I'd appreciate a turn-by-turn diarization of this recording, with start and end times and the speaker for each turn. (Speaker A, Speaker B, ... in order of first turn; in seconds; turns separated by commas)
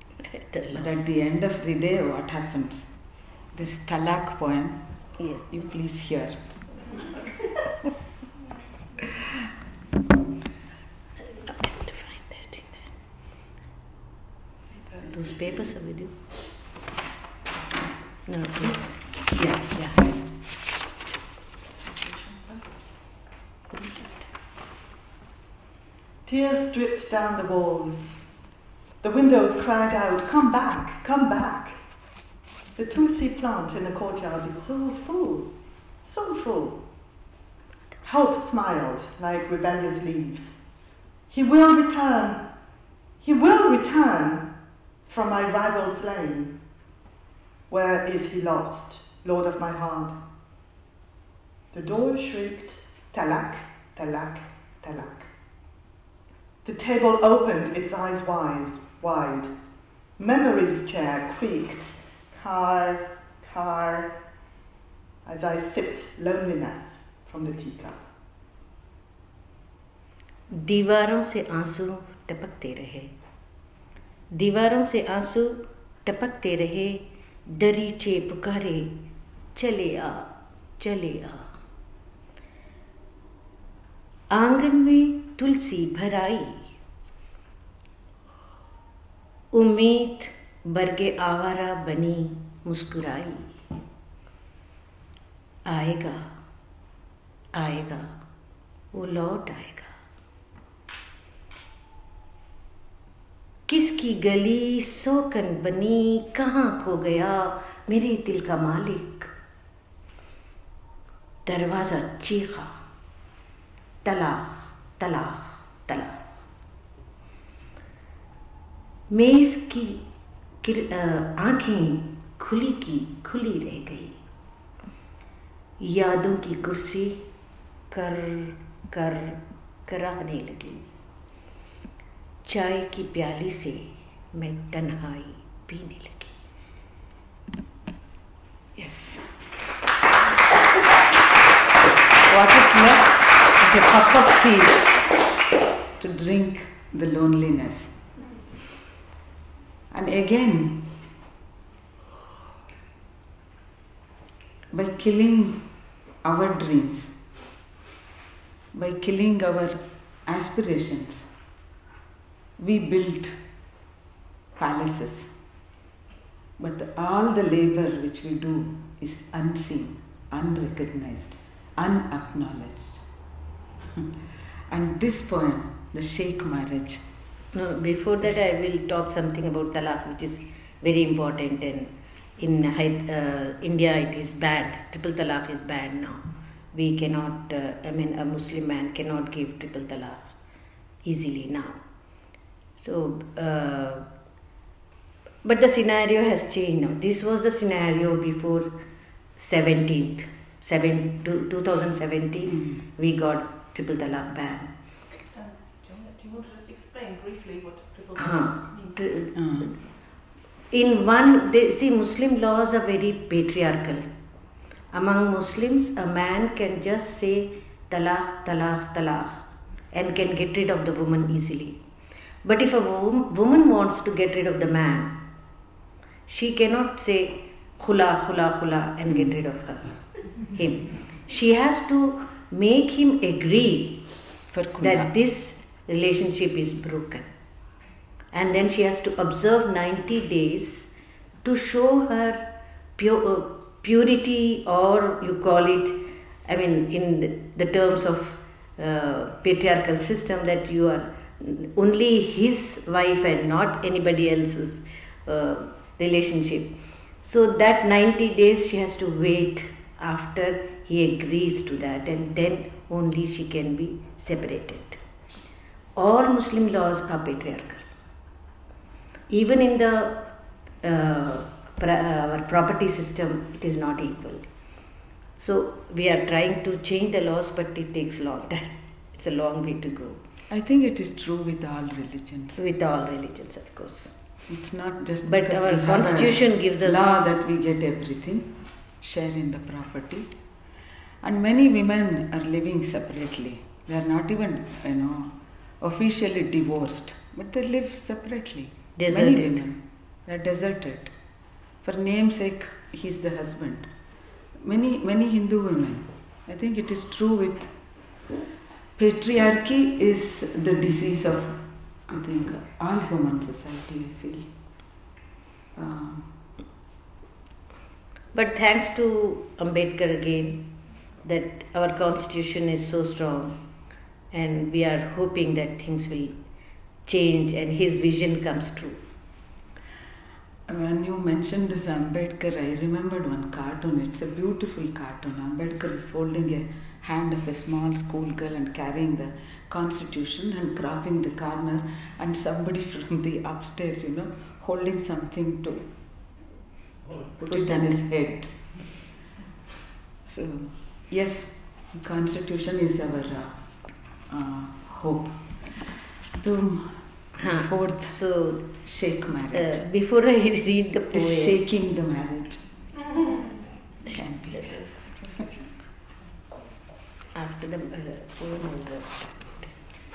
Speaker A: 0.2-1.0, Speaker B: 0.7-2.9, Speaker B: 3.5-4.8, Speaker B: 5.5-6.5, Speaker A: 11.2-12.9, Speaker A: 15.0-16.1, Speaker A: 18.3-18.9, Speaker B: 18.6-20.2, Speaker C: 21.9-22.8, Speaker C: 26.2-28.2, Speaker C: 29.0-31.8, Speaker C: 32.8-35.5, Speaker C: 36.0-36.8, Speaker C: 38.0-40.6, Speaker C: 41.3-42.4, Speaker C: 43.2-44.5, Speaker C: 45.1-46.5, Speaker C: 47.7-50.1, Speaker C: 51.7-55.3, Speaker C: 56.6-59.5, Speaker C: 60.2-64.1, Speaker C: 65.2-68.0, Speaker A: 70.5-73.1, Speaker A: 74.3-79.0, Speaker A: 79.5-80.3, Speaker A: 80.8-81.5, Speaker A: 84.3-86.7, Speaker A: 89.5-93.5, Speaker A: 95.7-96.3, Speaker A: 97.6-98.1, Speaker A: 98.9-99.9, Speaker A: 103.7-109.3, Speaker A: 111.5-112.8, Speaker A: 114.0-116.3, Speaker A: 119.1-120.0, Speaker A: 120.6-124.2, Speaker A: 125.8-127.2, Speaker A: 127.9-130.8, Speaker A: 132.4-136.3, Speaker B: 138.8-139.3, Speaker B: 142.3-145.0, Speaker B: 146.0-147.9, Speaker B: 149.9-150.9, Speaker B: 154.7-155.7, Speaker B: 156.2-157.1, Speaker B: 158.7-161.2, Speaker B: 162.6-163.3, Speaker B: 164.6-165.3, Speaker B: 166.6-173.0, Speaker B: 174.7-177.0, Speaker A: 177.5-190.4, Speaker A: 191.0-191.8, Speaker A: 192.8-194.1, Speaker A: 195.4-198.7, Speaker A: 199.4-204.7, Speaker B: 202.5-202.8, Speaker D: 205.3-209.1, Speaker A: 208.2-209.7, Speaker B: 209.3-209.7, Speaker A: 210.7-214.1, Speaker A: 214.9-221.8, Speaker A: 222.4-225.2, Speaker A: 226.3-234.1, Speaker B: 229.1-229.3, Speaker B: 234.5-235.1, Speaker A: 234.8-237.3, Speaker A: 238.3-240.9, Speaker A: 241.4-242.4, Speaker A: 243.0-265.0, Speaker A: 266.0-267.9, Speaker A: 269.3-270.3, Speaker A: 270.8-274.4, Speaker A: 275.4-280.2, Speaker B: 280.5-282.6, Speaker A: 282.5-284.1, Speaker B: 284.5-290.3, Speaker A: 285.2-287.2, Speaker B: 291.2-301.1, Speaker A: 299.0-299.6, Speaker B: 301.8-303.9, Speaker B: 304.6-307.7, Speaker B: 309.0-314.5, Speaker B: 315.8-316.3, Speaker A: 318.3-320.7, Speaker A: 321.2-323.6, Speaker A: 324.3-326.4, Speaker A: 327.1-329.0, Speaker B: 330.7-345.8, Speaker B: 347.4-348.6, Speaker A: 347.4-347.9, Speaker B: 350.2-353.6, Speaker B: 354.3-358.2, Speaker A: 357.4-358.7, Speaker B: 358.8-359.9, Speaker A: 359.5-361.6, Speaker B: 361.1-362.6, Speaker B: 364.1-364.9, Speaker A: 367.4-369.7